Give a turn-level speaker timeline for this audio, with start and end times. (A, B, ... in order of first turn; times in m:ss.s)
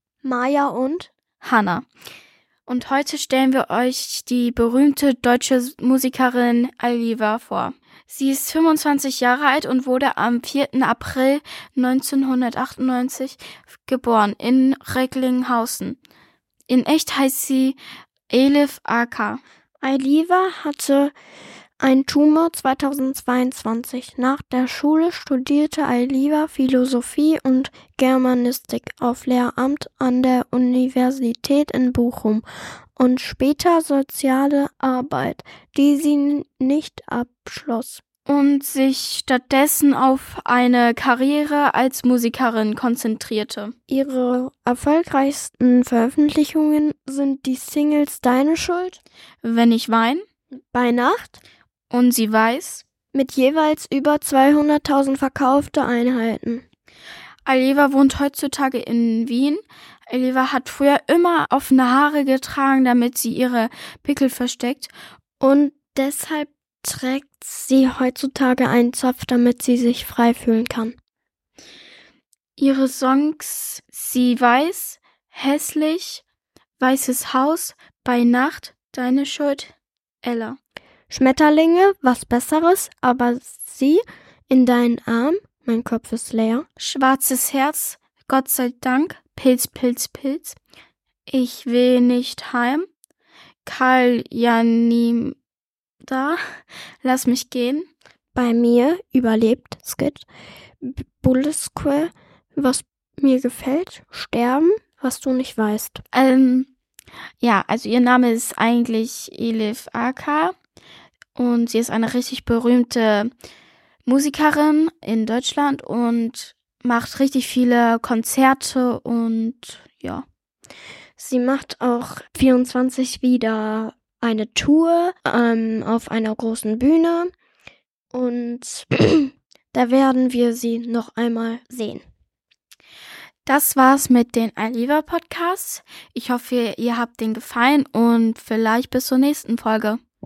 0:00.2-0:01.1 A
0:01.4-0:01.9 B
0:02.7-0:16.0 B
0:16.7-0:17.8 B
0:18.3-0:19.4 B
0:19.8-0:21.1 A
0:21.8-0:32.5 A
0:33.0-0:38.0 A
0:38.3-0:43.7 B
0:43.9-0:49.0 A
0:49.4-0:50.2 B
0:50.7-0:51.4 A
0:51.9-0:52.9 B
0:53.1-0:56.6 A
0:57.5-1:04.9 B
1:05.4-1:11.0 A
1:12.6-1:16.2 B
1:16.8-1:20.6 B
1:21.1-1:26.7 A
1:26.8-1:30.6 B
1:31.3-1:32.9 B
1:33.6-1:35.4 B
1:36.0-1:36.4 B
1:37.0-1:37.9 B
1:38.4-1:40.3 A
1:40.8-1:46.0 A
1:46.1-1:46.7 B
1:47.4-1:50.5 B
1:51.4-1:53.3 B
1:54.1-2:00.3 B
2:01.2-2:07.3 A
2:08.1-2:12.0 A
2:13.4-2:20.0 B